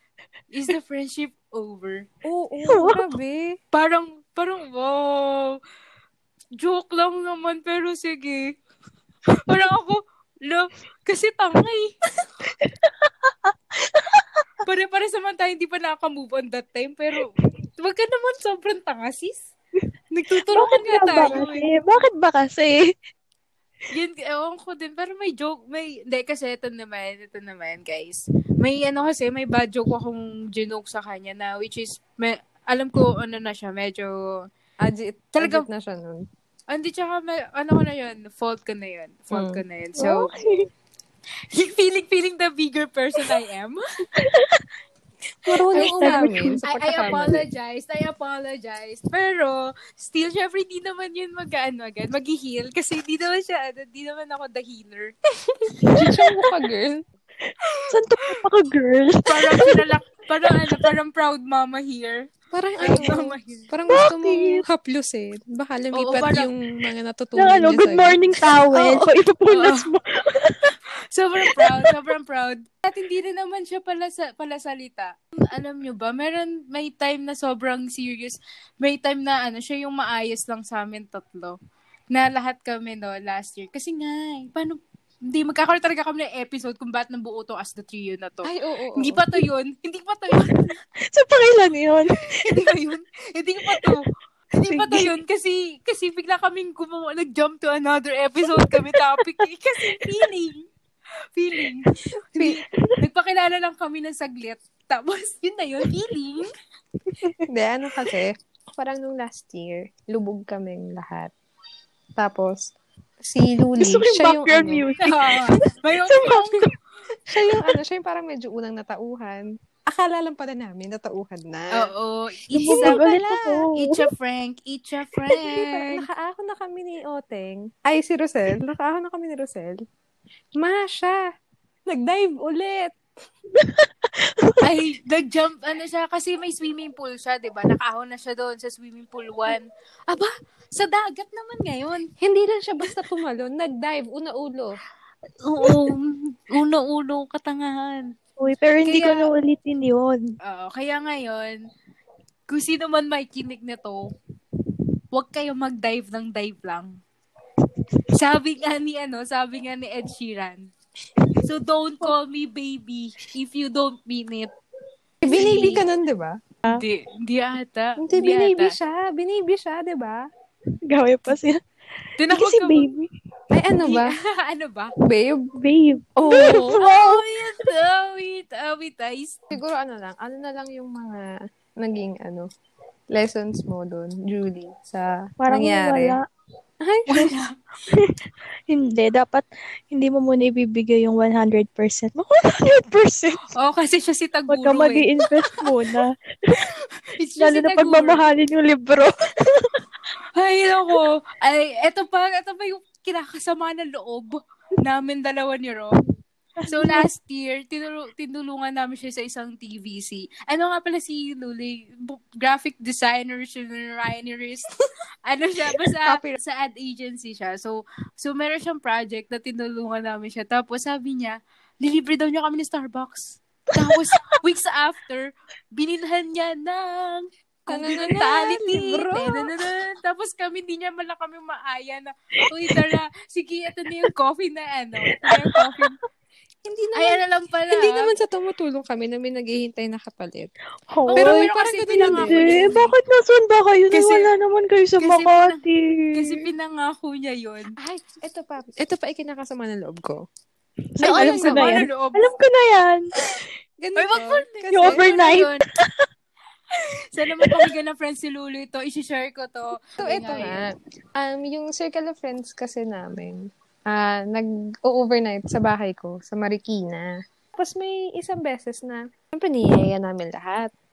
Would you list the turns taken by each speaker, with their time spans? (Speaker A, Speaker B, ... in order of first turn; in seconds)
Speaker A: 0.5-2.0, 3.7-5.6, 6.6-8.5, 9.5-11.9, 14.6-19.5, 20.1-21.7, 23.9-34.5, 35.4-35.6, 36.7-40.3, 41.5-43.8, 45.8-55.1, 57.6-57.9, 59.2-62.3, 62.8-63.7, 65.9-66.5, 68.7-69.9, 71.1-81.5, 82.1-90.7, 92.3-100.7, 101.3-106.5, 115.0-116.7, 121.7-123.1, 123.7-126.0, 134.6-142.1, 145.4-148.1, 148.8-149.3, 150.4-151.6, 152.5-154.1, 155.1-157.0, 158.1-160.7, 161.4-164.5, 165.2-165.8, 166.7-168.8, 172.2-172.9, 173.8-174.9, 176.3-179.4, 187.1-187.5, 193.5-195.7, 196.6-198.2, 200.4-206.0, 206.7-214.7, 215.2-236.0, 236.9-238.1, 241.1-242.9, 243.9-244.3, 245.0-245.6, 246.1-247.7, 251.0-252.3, 253.9-255.6, 257.1-260.6
Speaker B: 2.2-3.5, 34.8-36.3, 39.3-40.2, 45.4-47.4, 55.9-57.0, 62.5-68.3, 88.4-89.2, 107.5-111.3, 112.2-114.8, 117.3-121.9, 122.6-123.7, 125.4-129.8, 130.6-131.2, 131.9-132.9, 142.2-144.8, 165.2-166.4, 168.0-170.2, 173.5-174.1, 175.0-175.5, 176.2-176.8, 179.5-181.3, 181.8-182.5, 183.1-186.2, 186.8-187.3, 216.0-216.4, 227.7-229.4, 236.6-240.5, 241.1-242.8, 247.8-250.2, 251.0-251.8, 253.8-255.1, 260.0-270.7
Speaker C: 2.7-3.0, 12.6-14.3, 20.5-22.9, 40.0-40.7, 44.1-44.6, 45.5-46.6, 55.9-56.1, 57.8-59.8, 63.9-64.6, 67.4-70.7, 91.1-92.6, 94.7-95.1, 113.8-115.6, 116.1-116.7, 122.6-124.0, 133.5-134.6, 148.4-150.2, 170.9-171.6, 172.3-173.1, 175.6-177.6, 185.4-186.2, 187.9-193.5, 194.5-196.6, 197.4-199.8, 206.6-207.1, 235.3-235.6, 240.9-246.4, 250.9-253.1, 254.7-256.0